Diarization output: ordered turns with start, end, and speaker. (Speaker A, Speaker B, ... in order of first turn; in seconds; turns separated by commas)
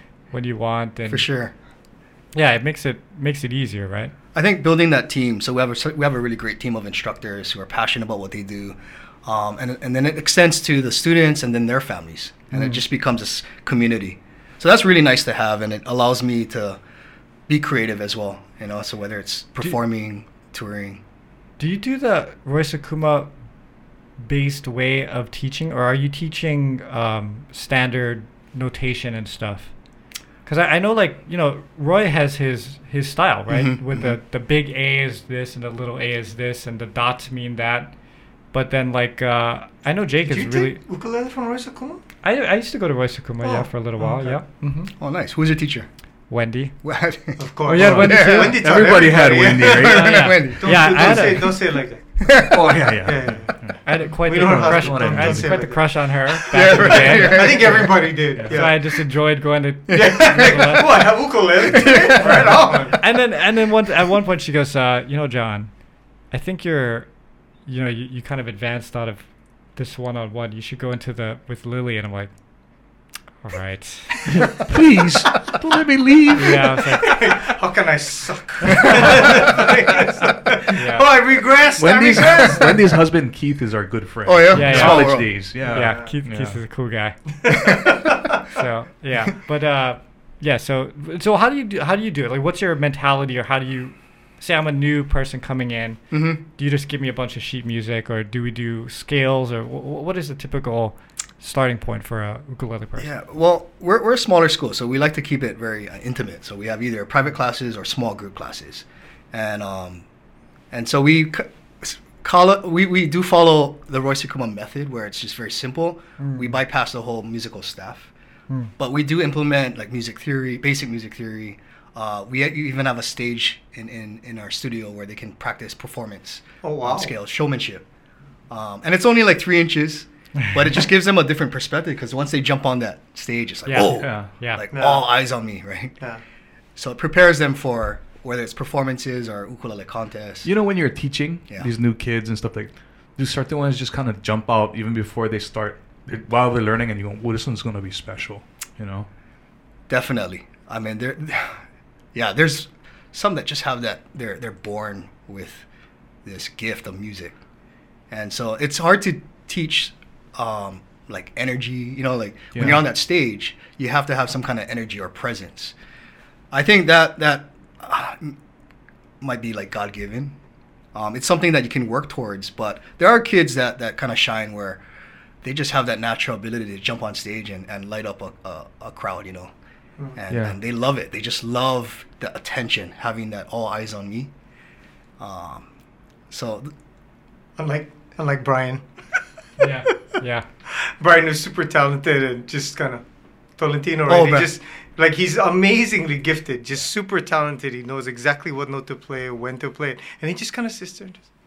Speaker A: 0.3-1.3, Speaker B: 1.1-1.5, Speaker A: 2.3-4.1, Speaker B: 4.3-16.8, Speaker A: 12.5-12.8, Speaker B: 17.5-21.0, Speaker A: 21.6-23.3, Speaker A: 24.2-29.7, Speaker A: 30.4-37.9, Speaker B: 33.5-34.2, Speaker A: 38.5-40.8, Speaker C: 40.3-42.0, Speaker A: 42.2-44.9, Speaker C: 43.4-44.4, Speaker B: 45.0-45.9, Speaker A: 46.3-46.7, Speaker B: 46.8-48.6, Speaker C: 47.4-52.0, Speaker A: 47.6-48.6, Speaker D: 47.8-50.3, Speaker B: 49.7-51.6, Speaker A: 49.8-51.6, Speaker B: 52.2-52.9, Speaker D: 52.3-53.8, Speaker C: 53.0-53.5, Speaker A: 53.8-57.9, Speaker C: 54.2-55.9, Speaker D: 54.3-55.7, Speaker B: 56.5-57.9, Speaker C: 56.7-58.9, Speaker D: 58.3-58.7, Speaker A: 58.4-61.1, Speaker B: 59.9-60.9, Speaker C: 59.9-63.0, Speaker B: 61.6-62.8, Speaker A: 63.0-65.7, Speaker A: 66.3-67.1, Speaker A: 67.7-72.3, Speaker A: 73.4-74.5, Speaker D: 74.3-76.8, Speaker A: 76.3-77.2, Speaker C: 76.5-83.0, Speaker D: 78.8-79.5, Speaker A: 80.7-81.1, Speaker D: 81.8-86.6, Speaker B: 84.2-85.3, Speaker A: 84.5-87.2, Speaker C: 85.6-86.1, Speaker C: 87.4-88.4, Speaker B: 87.5-88.1, Speaker A: 88.4-103.1, Speaker B: 96.1-96.4, Speaker B: 103.0-110.0, Speaker B: 110.7-118.1, Speaker A: 116.2-116.6, Speaker B: 118.8-127.8, Speaker C: 126.6-127.1, Speaker B: 128.5-136.0, Speaker A: 133.7-134.7, Speaker D: 133.9-134.3, Speaker C: 134.7-135.1, Speaker B: 136.8-140.5, Speaker D: 140.4-149.1, Speaker B: 149.9-151.6, Speaker B: 152.1-155.6, Speaker B: 156.2-157.3, Speaker B: 158.1-165.7, Speaker D: 162.5-162.8, Speaker B: 166.5-168.4, Speaker B: 169.2-170.3, Speaker B: 170.9-174.8, Speaker B: 175.4-179.5, Speaker B: 180.2-184.3, Speaker D: 180.3-180.6, Speaker B: 185.2-185.7, Speaker B: 186.3-186.7, Speaker C: 187.6-188.8, Speaker A: 189.6-190.4, Speaker C: 190.7-193.0, Speaker C: 193.6-201.2, Speaker B: 194.1-194.5